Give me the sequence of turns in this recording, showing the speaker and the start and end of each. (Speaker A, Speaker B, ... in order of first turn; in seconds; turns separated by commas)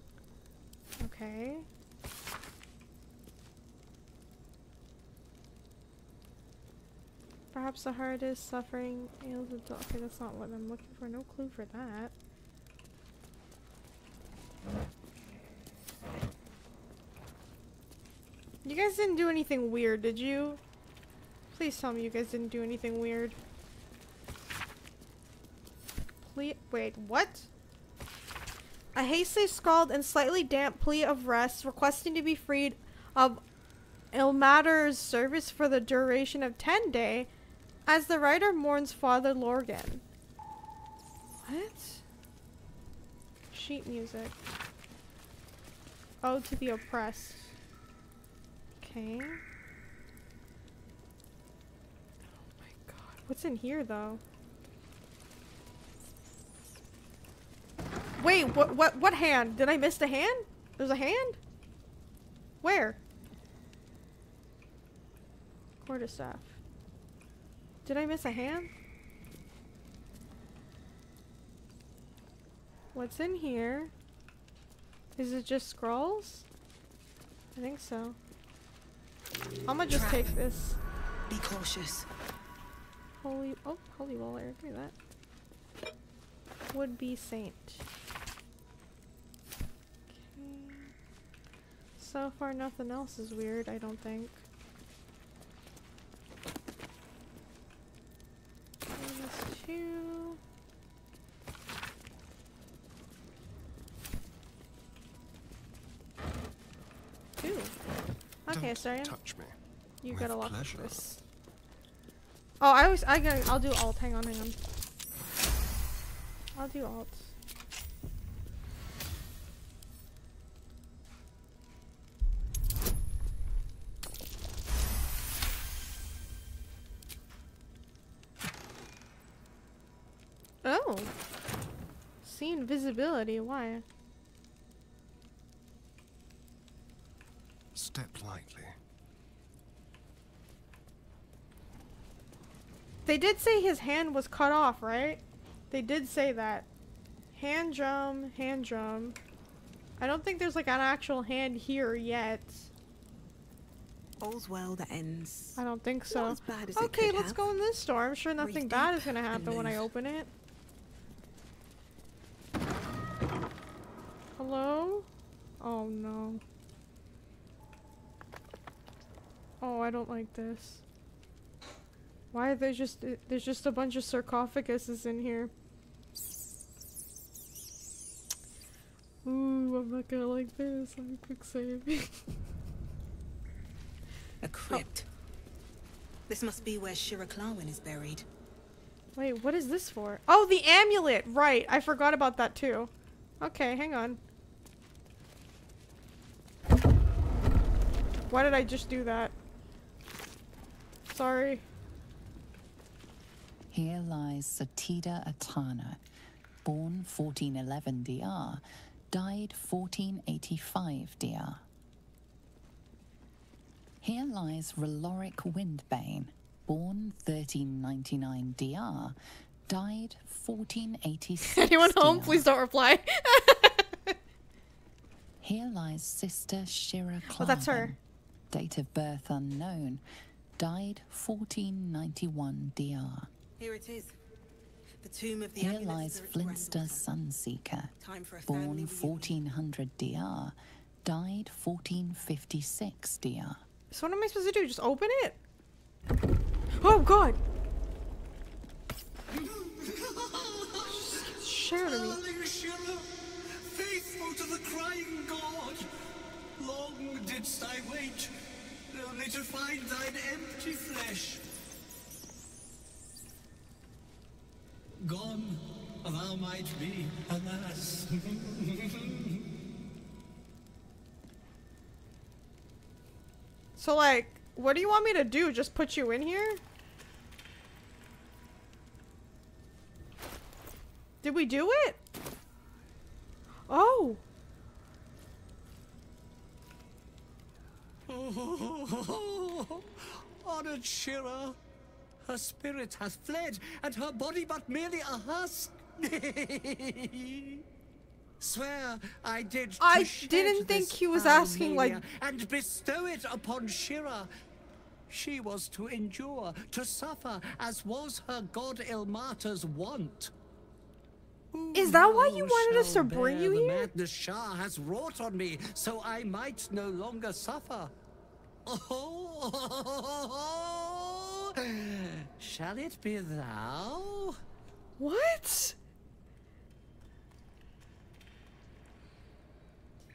Speaker A: 1.0-1.7, Speaker A: 7.5-12.1, Speaker A: 18.6-20.6, Speaker A: 21.5-23.4, Speaker A: 26.2-27.5, Speaker A: 28.9-33.4, Speaker A: 34.1-37.3, Speaker A: 37.9-40.0, Speaker A: 41.4-42.0, Speaker A: 43.5-44.4, Speaker A: 46.2-47.5, Speaker A: 48.8-49.4, Speaker A: 52.3-54.2, Speaker A: 58.2-61.4, Speaker A: 62.6-63.0, Speaker A: 65.8-66.6, Speaker A: 67.8-68.7, Speaker A: 72.9-73.9, Speaker A: 75.2-76.5, Speaker A: 77.6-78.2, Speaker A: 79.7-80.8, Speaker B: 79.9-80.4, Speaker B: 81.3-82.1, Speaker A: 83.2-84.9, Speaker A: 86.7-87.8, Speaker A: 90.1-90.9, Speaker A: 92.0-94.4, Speaker A: 99.0-100.4, Speaker A: 107.4-107.7, Speaker A: 108.5-109.2, Speaker C: 108.5-109.5, Speaker A: 110.0-111.2, Speaker C: 110.1-111.1, Speaker A: 112.6-114.6, Speaker A: 116.6-117.3, Speaker A: 130.6-131.1, Speaker A: 132.2-133.8, Speaker C: 137.7-138.8, Speaker A: 143.1-146.7, Speaker A: 147.4-149.2, Speaker A: 150.0-152.7, Speaker B: 154.2-155.6, Speaker A: 155.6-160.3, Speaker B: 156.1-157.5, Speaker B: 158.4-159.8, Speaker A: 164.4-165.1, Speaker A: 165.6-166.4, Speaker A: 169.6-170.8, Speaker A: 172.3-175.5, Speaker A: 179.2-182.2, Speaker B: 184.4-185.1, Speaker B: 186.3-188.3, Speaker A: 189.2-194.2, Speaker A: 198.3-199.3, Speaker A: 201.1-201.6, Speaker D: 203.7-206.0, Speaker D: 206.6-211.6, Speaker D: 214.0-219.2, Speaker D: 219.7-222.5, Speaker A: 221.5-224.2, Speaker D: 225.4-228.0, Speaker A: 227.3-227.9, Speaker D: 228.5-230.0, Speaker D: 230.6-233.3, Speaker B: 233.6-234.2, Speaker B: 235.0-237.1, Speaker D: 235.6-237.9, Speaker B: 238.0-239.4, Speaker D: 238.5-243.6, Speaker A: 243.9-245.4, Speaker A: 246.8-247.4, Speaker E: 249.3-255.9, Speaker A: 250.9-252.2, Speaker E: 256.6-258.4, Speaker E: 258.9-261.4, Speaker E: 265.0-269.4, Speaker A: 273.8-276.6, Speaker A: 281.2-282.0, Speaker A: 283.7-284.2, Speaker E: 288.1-291.6, Speaker E: 292.3-297.6, Speaker E: 298.4-304.3, Speaker A: 299.8-302.0, Speaker E: 305.1-310.3, Speaker E: 311.5-317.9, Speaker A: 311.7-313.9, Speaker E: 318.7-324.4, Speaker A: 325.0-325.8